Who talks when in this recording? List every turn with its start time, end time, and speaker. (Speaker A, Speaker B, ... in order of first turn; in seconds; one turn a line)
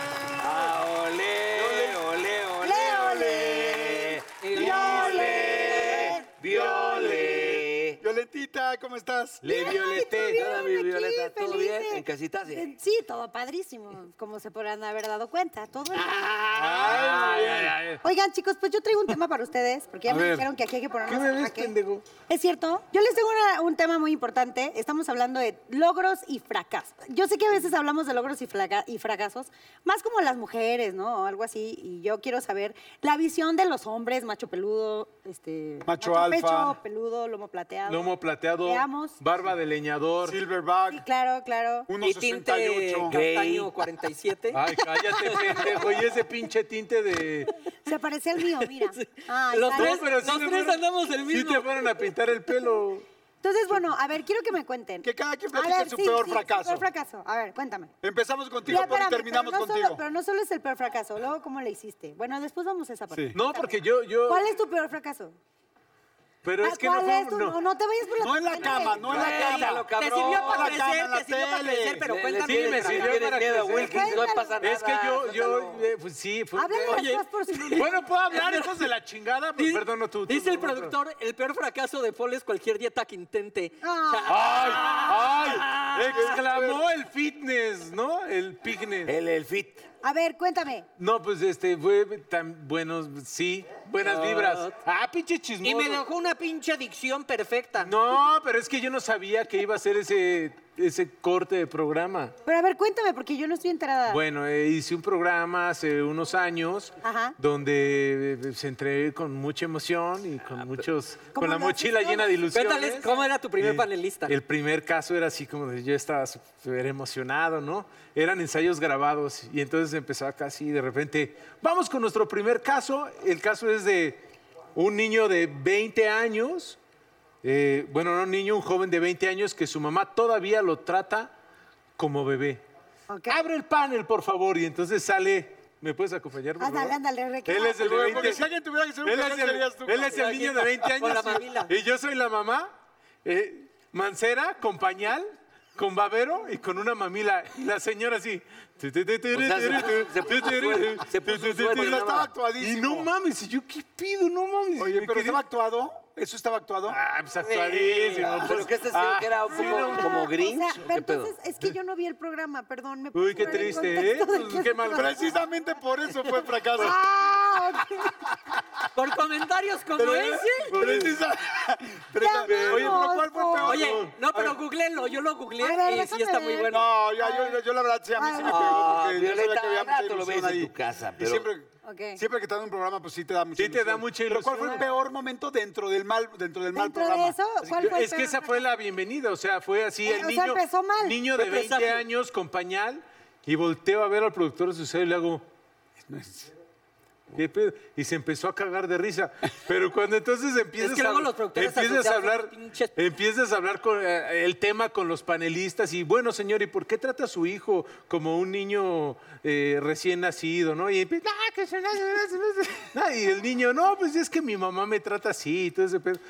Speaker A: 0.4-8.0
Speaker B: 1.6-2.0
Speaker C: 2.6-6.2
Speaker D: 4.4-5.5
Speaker B: 4.5-9.7
Speaker A: 9.4-12.7
Speaker C: 9.5-16.1
Speaker E: 9.5-10.4
Speaker A: 15.9-17.8
Speaker E: 16.5-18.0
Speaker C: 18.0-21.7
Speaker E: 20.1-20.5
Speaker E: 21.1-22.1
Speaker C: 22.3-38.1
Speaker B: 35.9-36.8
Speaker E: 37.9-40.4
Speaker C: 38.6-39.2
Speaker B: 40.2-41.0
Speaker C: 40.9-41.9
Speaker B: 41.9-43.2
Speaker D: 42.0-45.8
Speaker A: 43.1-43.7
Speaker E: 44.5-47.5
Speaker C: 47.9-50.1
Speaker D: 48.7-51.8
Speaker E: 49.7-53.0
Speaker C: 53.4-57.9
Speaker B: 55.0-56.9
Speaker B: 58.0-60.0
Speaker C: 58.7-65.4
Speaker E: 63.3-64.5
Speaker E: 66.4-67.6
Speaker C: 66.6-69.1
Speaker B: 68.2-72.0
Speaker A: 69.0-70.8
Speaker D: 69.1-73.2
Speaker A: 72.1-75.8
Speaker E: 72.4-77.0
Speaker C: 73.7-74.6
Speaker C: 76.6-77.9
Speaker D: 76.8-78.7
Speaker E: 77.8-81.0
Speaker D: 79.6-85.9
Speaker C: 83.8-84.4
Speaker E: 84.3-89.1
Speaker A: 84.4-86.3
Speaker B: 86.1-86.8
Speaker A: 89.1-89.8
Speaker C: 90.0-90.9
Speaker E: 91.0-96.0
Speaker D: 94.0-94.7
Speaker D: 95.6-97.9
Speaker E: 97.8-102.3
Speaker C: 102.5-104.2
Speaker E: 104.1-124.2
Speaker C: 107.0-107.4
Speaker C: 111.3-112.3
Speaker D: 112.5-114.3
Speaker E: 124.8-126.8
Speaker E: 127.4-131.3
Speaker E: 132.0-132.6
Speaker C: 133.1-133.4
Speaker E: 133.3-138.4
Speaker C: 136.6-138.3
Speaker B: 137.8-140.7
Speaker E: 139.0-142.7
Speaker D: 140.1-141.7
Speaker E: 143.2-155.4
Speaker A: 149.3-152.3
Speaker B: 151.2-153.1
Speaker B: 154.8-157.0
Speaker E: 156.9-160.3
Speaker A: 157.5-161.3
Speaker C: 159.6-165.3
Speaker E: 163.1-165.3
Speaker B: 164.9-167.0
Speaker C: 166.8-168.1
Speaker D: 168.9-170.8
Speaker B: 170.0-174.1
Speaker E: 170.7-171.2
Speaker C: 172.2-173.7
Speaker E: 172.5-174.5
Speaker D: 173.6-176.9
Speaker C: 175.6-177.6
Speaker B: 176.7-187.4
Speaker C: 178.2-178.8
Speaker A: 178.4-181.5
Speaker C: 181.8-182.2
Speaker E: 183.6-184.8
Speaker C: 186.8-188.6
Speaker E: 187.6-195.4
Speaker C: 190.1-191.2
Speaker D: 191.3-192.0
Speaker B: 196.1-196.5
Speaker E: 197.3-216.2
Speaker D: 200.8-202.9